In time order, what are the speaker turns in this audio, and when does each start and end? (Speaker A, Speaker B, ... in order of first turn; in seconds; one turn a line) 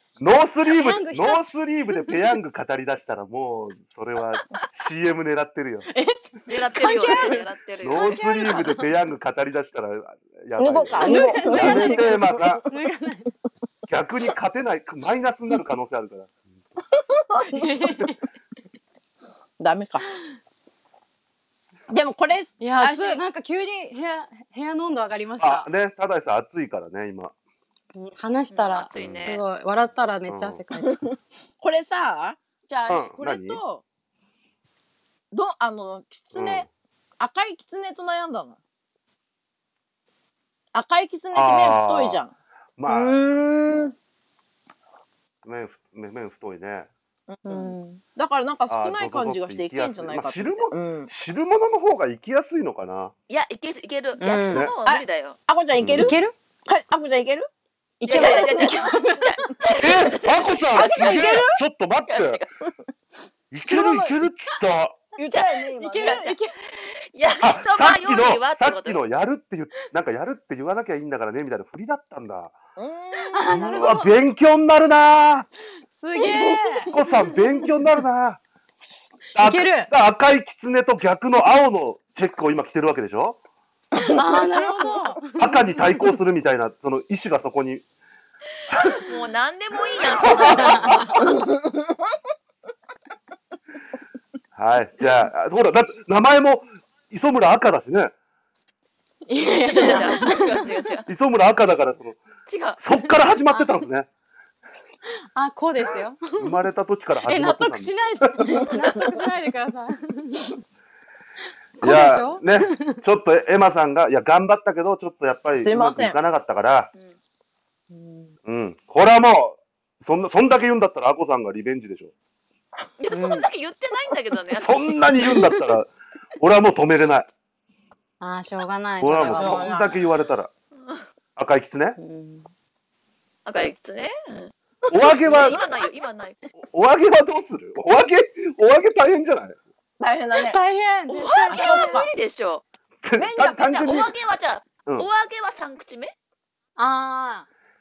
Speaker A: 0.2-5.9
Speaker B: 0.7-2.2
Speaker B: 5.9-8.9
Speaker C: 6.5-8.2
Speaker A: 7.1-12.6
Speaker D: 10.6-12.6
Speaker B: 11.0-13.3
Speaker A: 13.9-16.4
Speaker D: 17.2-17.5
Speaker B: 17.4-18.2
Speaker D: 19.6-20.0
Speaker D: 21.9-23.2
Speaker B: 22.6-25.7
Speaker A: 25.4-27.3
Speaker B: 27.9-31.0
Speaker C: 28.5-29.4
Speaker A: 28.9-29.3
Speaker A: 30.3-30.6
Speaker D: 30.8-33.8
Speaker A: 32.9-33.6
Speaker D: 35.3-36.7
Speaker A: 36.3-36.7
Speaker D: 37.2-38.6
Speaker D: 40.7-42.3
Speaker A: 41.3-42.2
Speaker A: 42.8-43.2
Speaker B: 42.9-43.9
Speaker A: 45.4-46.9
Speaker D: 47.3-51.1
Speaker B: 47.5-48.0
Speaker A: 48.7-53.1
Speaker C: 53.3-55.4
Speaker B: 54.2-54.7
Speaker D: 54.6-57.5
Speaker A: 55.8-56.2
Speaker B: 55.9-56.4
Speaker B: 58.0-59.5
Speaker C: 58.0-61.3
Speaker D: 58.1-59.0
Speaker A: 59.8-62.4
Speaker D: 60.7-61.6
Speaker C: 62.1-62.5
Speaker A: 63.5-65.0
Speaker D: 63.6-64.2
Speaker D: 65.2-66.2
Speaker C: 65.2-69.0
Speaker B: 65.8-66.5
Speaker A: 67.4-72.5
Speaker D: 72.8-73.8
Speaker B: 73.3-74.1
Speaker A: 73.5-75.5
Speaker B: 75.9-77.4
Speaker D: 76.2-77.3
Speaker A: 76.9-78.4
Speaker B: 79.3-79.9
Speaker A: 79.4-83.4
Speaker B: 84.0-86.0
Speaker A: 85.4-87.8
Speaker A: 88.7-89.0
Speaker C: 89.1-91.5
Speaker A: 90.3-91.1
Speaker B: 90.5-91.0
Speaker D: 91.5-91.9
Speaker A: 94.6-98.1
Speaker B: 99.3-100.6
Speaker C: 99.6-101.1
Speaker A: 101.1-102.2
Speaker C: 102.5-103.8
Speaker A: 102.8-104.1
Speaker B: 105.3-106.6
Speaker A: 106.4-108.6
Speaker B: 107.2-110.6
Speaker B: 111.8-113.0
Speaker A: 111.8-116.9
Speaker D: 115.5-116.2
Speaker B: 117.9-118.3
Speaker A: 118.5-122.1
Speaker C: 123.0-125.0
Speaker B: 123.1-123.5
Speaker A: 124.6-127.3
Speaker B: 128.2-129.8
Speaker A: 129.0-130.5
Speaker D: 129.3-130.0
Speaker C: 130.8-131.1
Speaker A: 131.4-132.0
Speaker B: 132.0-132.5
Speaker C: 133.4-134.5
Speaker A: 134.9-135.6
Speaker D: 135.2-135.6
Speaker C: 135.2-136.4
Speaker A: 136.6-139.6
Speaker D: 140.0-140.6
Speaker B: 140.4-142.1
Speaker C: 141.1-142.6
Speaker D: 141.5-142.1
Speaker A: 143.0-144.1
Speaker D: 143.2-144.1
Speaker C: 143.8-146.1
Speaker B: 146.8-147.5